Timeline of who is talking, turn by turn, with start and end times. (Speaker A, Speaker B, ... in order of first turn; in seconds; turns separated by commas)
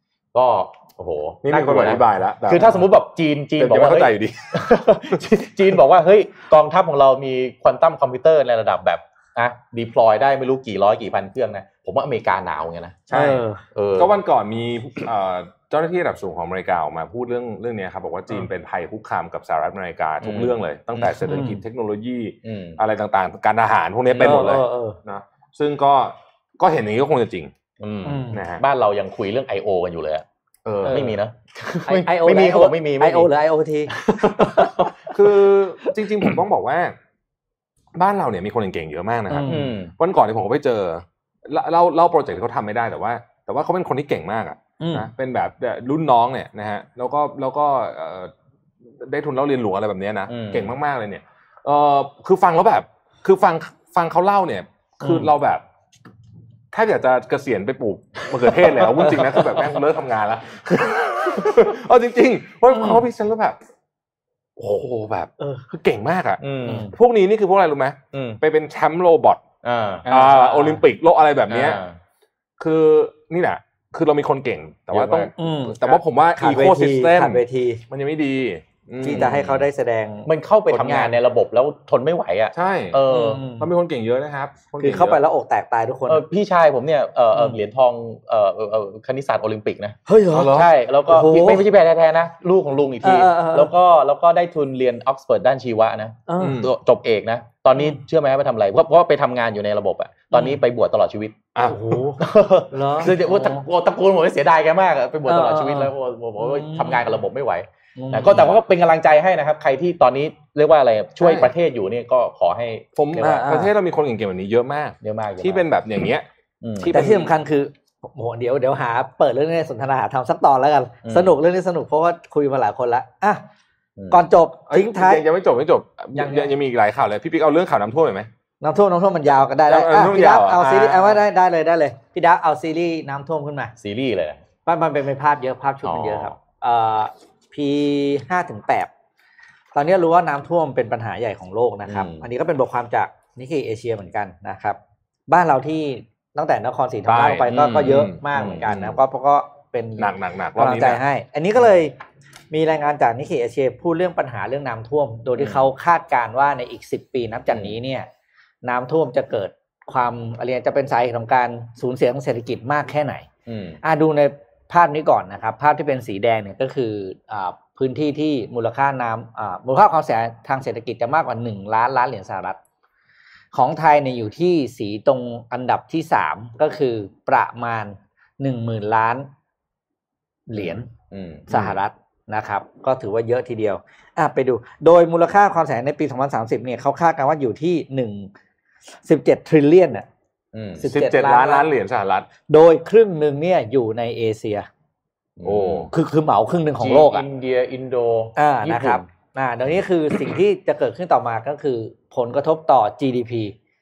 Speaker A: 0.3-14.1, Speaker B: 1.4-2.9, Speaker B: 3.6-4.7, Speaker B: 13.1-13.4, Speaker C: 13.1-13.6, Speaker B: 14.0-27.5, Speaker A: 20.2-21.3, Speaker C: 21.3-21.6, Speaker A: 22.4-22.8, Speaker A: 24.1-24.5, Speaker C: 24.2-25.0, Speaker A: 27.8-30.2, Speaker C: 28.1-28.4, Speaker B: 28.3-28.6, Speaker B: 30.6-31.1, Speaker C: 30.8-31.1, Speaker A: 30.9-33.3, Speaker C: 31.9-34.9, Speaker A: 34.4-34.9, Speaker B: 35.1-36.9, Speaker B: 38.0-48.3, Speaker C: 39.3-39.8, Speaker A: 39.4-39.9, Speaker C: 44.8-45.1, Speaker B: 49.0-55.6, Speaker A: 50.3-50.7, Speaker C: 55.0-55.3, Speaker B: 56.7-63.6, Speaker C: 62.7-63.0, Speaker B: 64.6-69.4, Speaker A: 66.4-66.9, Speaker C: 66.7-66.9, Speaker A: 68.1-68.4, Speaker A: 69.6-70.1, Speaker C: 70.0-70.8, Speaker B: 70.1-71.8, Speaker A: 71.5-72.0, Speaker B: 72.6-79.5, Speaker A: 74.9-75.3, Speaker C: 75.4-77.8, Speaker C: 79.0-81.1, Speaker A: 79.1-79.6, Speaker A: 80.3-83.4, Speaker B: 82.5-85.2, Speaker C: 83.1-83.7, Speaker C: 84.8-86.2, Speaker A: 86.1-101.5, Speaker C: 90.1-90.5, Speaker B: 90.3-90.7, Speaker C: 91.1-91.6, Speaker C: 93.0-93.7, Speaker C: 96.3-96.6, Speaker B: 96.4-96.7, Speaker C: 100.3-100.6, Speaker B: 101.5-102.0, Speaker C: 101.7-103.6, Speaker A: 102.2-113.5, Speaker C: 105.3-107.0, Speaker C: 108.0-108.5, Speaker B: 111.2-111.5, Speaker B: 113.0-116.3, Speaker C: 113.2-113.7, Speaker A: 115.0-115.7, Speaker A: 116.6-117.0, Speaker B: 116.8-117.3, Speaker C: 116.9-123.4, Speaker A: 121.0-121.4, Speaker A: 124.0-124.2, Speaker C: 124.1-125.2, Speaker B: 124.7-128.3, Speaker C: 126.2-126.5, Speaker C: 128.6-133.7, Speaker B: 129.7-131.2, Speaker A: 133.8-134.4, Speaker C: 134.7-138.9, Speaker A: 135.8-136.4, Speaker C: 139.7-152.0, Speaker A: 141.9-142.3, Speaker B: 147.1-149.0, Speaker A: 148.3-148.7, Speaker B: 150.0-151.0, Speaker C: 152.5-158.1, Speaker A: 155.4-155.7, Speaker C: 158.6-163.3, Speaker A: 163.5-163.8, Speaker C: 163.8-172.6, Speaker C: 173.5-179.3, Speaker C: 180.5-180.9, Speaker A: 180.6-181.6, Speaker C: 181.5-188.3, Speaker C: 189.0-190.1, Speaker A: 190.5-190.8, Speaker C: 190.8-191.7, Speaker B: 190.8-192.3, Speaker C: 192.5-194.7, Speaker A: 195.4-195.9, Speaker B: 195.4-195.9, Speaker C: 195.9-197.2, Speaker A: 196.8-199.0, Speaker C: 198.4-203.6